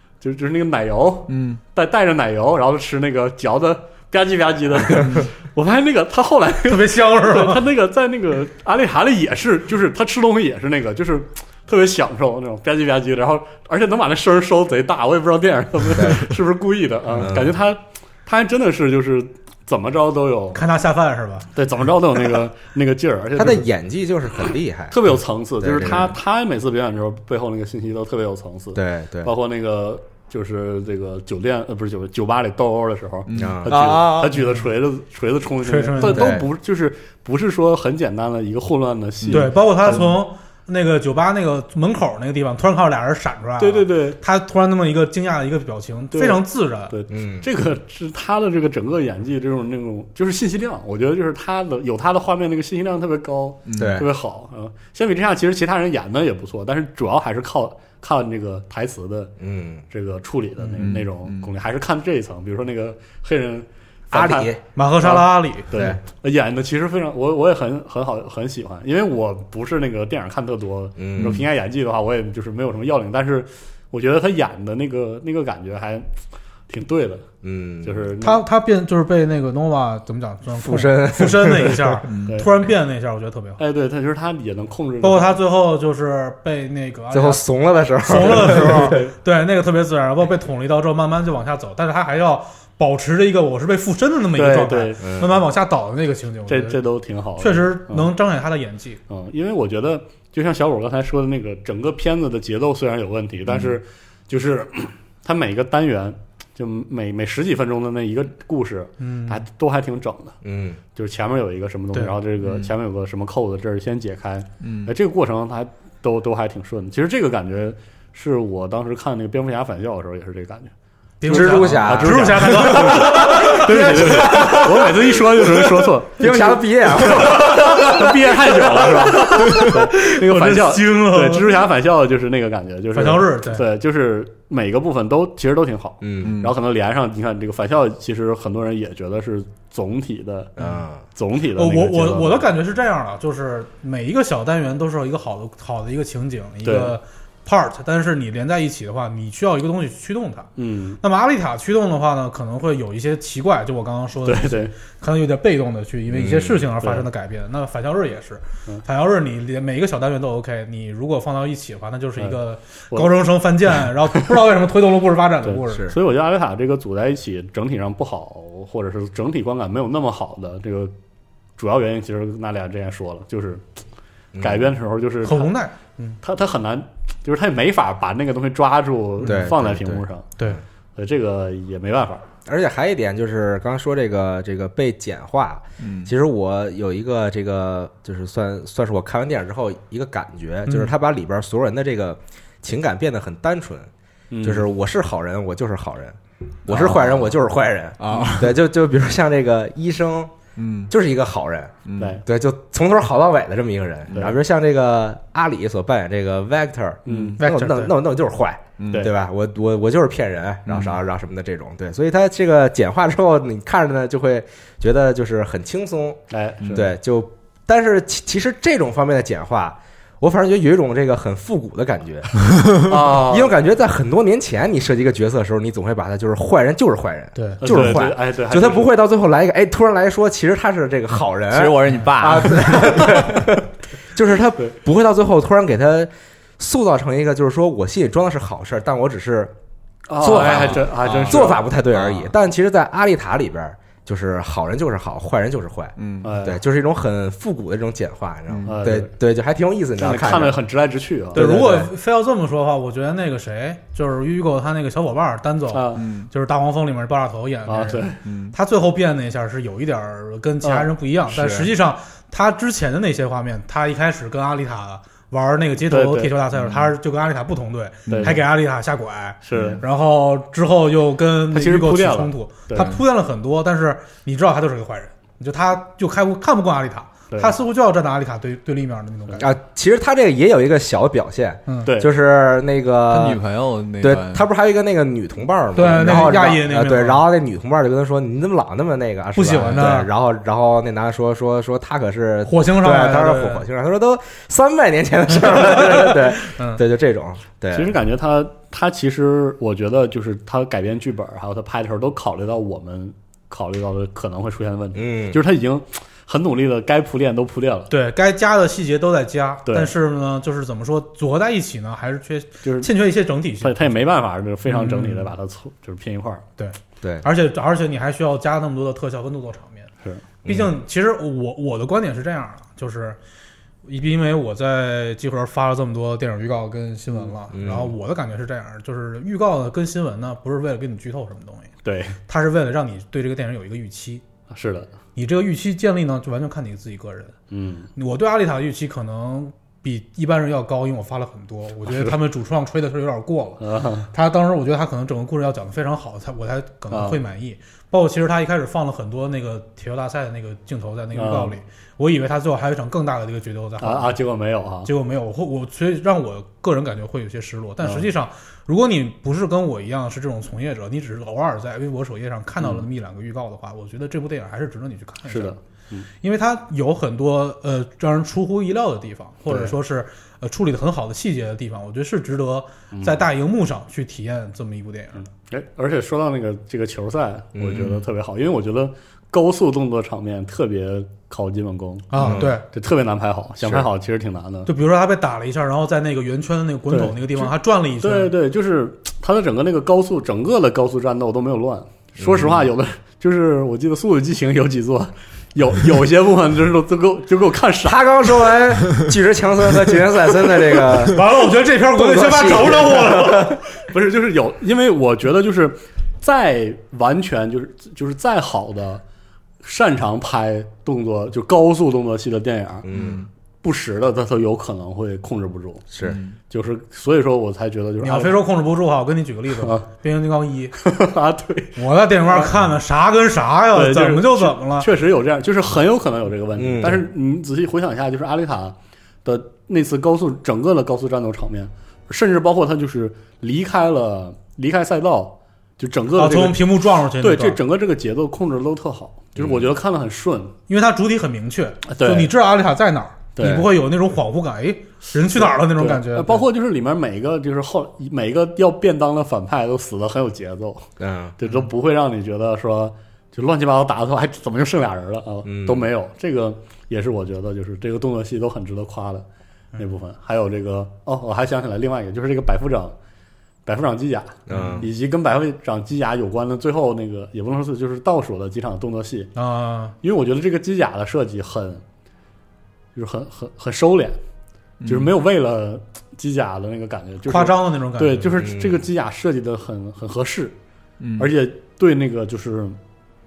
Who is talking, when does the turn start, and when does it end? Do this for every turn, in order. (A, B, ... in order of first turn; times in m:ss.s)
0:00.2-0:20.6 A
0:01.3-0:01.6 B
0:06.6-0:07.7 C
0:15.9-0:16.2 D
0:17.2-0:17.6 D
0:20.5-0:21.5 C
0:21.5-0:23.7 A
0:23.3-0:25.0 D
0:24.9-0:40.1 A
0:25.6-0:26.2 D
0:28.7-0:29.3 D
0:33.3-0:34.4 B
0:33.3-0:34.0 D
0:35.6-0:36.4 C
0:36.0-0:36.5 D
0:39.2-0:39.5 B
0:39.3-0:46.9 C
0:43.6-0:44.2 A
0:46.1-0:59.3 A
0:47.1-0:47.5 D
0:53.7-0:54.0 B
0:53.8-0:54.1 D
0:59.4-0:59.8 D
0:59.9-1:16.1 A
1:00.6-1:00.9 C
1:00.8-1:01.5 B
1:04.1-1:04.6 D
1:04.7-1:05.7 C
1:11.0-1:11.4 D
1:11.2-1:11.4 B
1:16.7-1:17.3 A
1:17.4-1:18.1 D
1:17.8-1:18.4 A
1:18.2-1:23.6 C
1:20.5-1:22.0 D
1:22.1-1:22.4 B
1:22.2-1:22.5 A
1:23.6-1:25.4 A
1:25.0-1:27.4 C
1:27.1-1:29.1 D
1:28.0-1:36.8 C
1:28.6-1:29.1 A
1:34.3-1:35.1 A
1:35.0-1:35.4 D
1:36.5-1:38.1 A
1:37.4-1:39.0 C
1:39.1-1:50.4 A
1:49.0-1:49.4 C
1:50.4-1:50.8 D
1:50.9-2:00.7 A
1:52.4-1:52.7 B
1:54.6-1:54.9 B
2:01.2-2:04.4 C
2:01.2-2:22.4 A
2:01.3-2:08.8 D
2:09.1-2:11.5 C
2:12.9-2:13.6 C
2:16.0-2:16.4 D
2:16.2-2:16.5 B
2:20.6-2:21.0 D
2:21.5-2:45.9 C
2:26.6-2:27.0 A
2:30.6-2:31.0 A
2:34.2-2:34.7 A
2:36.1-2:36.6 D
2:36.8-2:37.1 A
2:45.4-2:50.9 A
2:45.7-2:46.0 D
2:51.6-2:53.6 A
2:54.3-2:54.7 D
2:54.4-2:55.5 A
2:55.2-2:56.2 C
2:56.2-3:00.3 A
2:59.2-3:00.6 D
3:01.0-3:02.3 A
3:02.4-3:13.9 D
3:05.8-3:06.1 B
3:10.7-3:10.9 C
3:14.3-3:14.7 A
3:14.4-3:20.3 D
3:16.7-3:17.1 B
3:18.0-3:18.5 B
3:20.6-3:20.9 B
3:20.9-3:59.5 D
3:21.8-3:22.2 B
3:27.0-3:27.4 A
3:27.4-3:27.9 C
3:28.8-3:29.1 B
3:30.6-3:31.0 B
3:36.3-3:36.8 A
3:36.6-3:36.9 B
3:42.8-3:43.5 A
3:47.3-3:48.0 C
3:47.6-3:48.9 A
3:51.5-3:53.4 B
4:00.1-4:01.6 A
4:00.2-4:10.6 D
4:00.2-4:02.3 B
4:06.0-4:06.3 B
4:06.2-4:06.6 A
4:08.5-4:08.8 B
4:08.6-4:09.1 A
4:10.0-4:11.8 A
4:11.3-4:39.5 C
4:11.4-4:11.8 D
4:15.7-4:16.0 A
4:16.0-4:16.3 B
4:17.7-4:18.2 A
4:18.2-4:18.5 B
4:20.6-4:20.9 A
4:21.3-4:21.7 D
4:25.9-4:26.3 A
4:28.1-4:28.4 B
4:28.1-4:28.4 A
4:29.4-4:29.8 A
4:31.5-4:33.0 A
4:37.3-4:37.6 A
4:39.4-4:43.4 D
4:41.7-4:41.9 C
4:41.8-4:42.1 A
4:43.1-4:44.4 B
4:44.0-4:57.9 D
4:45.7-4:47.2 C
4:49.4-4:50.1 C
4:49.6-4:49.9 B
4:52.4-4:53.6 C
4:55.6-4:56.8 C
4:57.7-5:07.9 A
5:04.9-5:05.4 D
5:07.9-5:13.9 C
5:09.6-5:09.9 A
5:12.6-5:12.9 A
5:13.6-5:16.4 A
5:14.7-5:15.3 C
5:16.6-5:19.9 C
5:20.4-5:20.7 D
5:20.4-5:23.2 C
5:23.8-5:31.7 C
5:27.5-5:27.9 D
5:31.8-5:32.2 A
5:32.3-5:34.2 C
5:34.5-5:34.9 A
5:35.1-5:37.4 C
5:37.5-5:37.9 A
5:37.9-5:54.2 C
5:41.9-5:42.1 A
5:43.6-5:44.1 A
5:46.9-5:47.2 A
5:51.1-5:51.6 A
5:53.8-5:54.9 A
5:54.8-6:05.6 C
5:57.8-5:58.1 A
6:05.3-6:06.1 A
6:06.2-6:15.2 C
6:09.5-6:09.7 A
6:12.9-6:13.2 A
6:15.3-6:24.7 A
6:17.5-6:18.0 D
6:22.1-6:22.6 C
6:22.2-6:22.5 D
6:23.6-6:23.9 D
6:24.6-6:28.3 C
6:26.9-6:38.1 A
6:32.2-6:32.6 D
6:37.8-6:41.3 D
6:41.0-6:43.6 C
6:41.9-6:43.6 D
6:43.9-6:49.0 A
6:49.6-6:52.9 A
6:52.8-6:53.2 D
6:52.9-6:53.3 B
6:53.6-6:55.8 A
6:55.9-6:56.2 D
6:56.0-6:56.4 B
6:56.5-6:58.4 A
6:58.0-7:00.7 C
6:59.5-6:59.9 A
7:00.8-7:01.8 A
7:01.8-7:04.9 C
7:02.3-7:02.5 A
7:03.7-7:20.5 A
7:06.6-7:07.0 D
7:16.2-7:17.6 C
7:19.4-7:19.7 D
7:20.7-7:26.4 C
7:21.9-7:22.3 A
7:23.4-7:23.7 A
7:23.4-7:23.6 D
7:25.4-7:42.9 A
7:31.0-7:31.4 D
7:35.4-7:35.9 D
7:43.6-7:49.3 A
7:44.5-7:44.9 D
7:49.3-7:50.0 C
7:50.0-7:51.8 A
7:52.9-7:54.2 A
7:54.8-7:55.2 B
7:54.8-8:00.5 A
7:57.3-7:58.4 C
7:58.4-7:58.8 D
8:01.0-8:01.3 B
8:01.2-8:02.8 A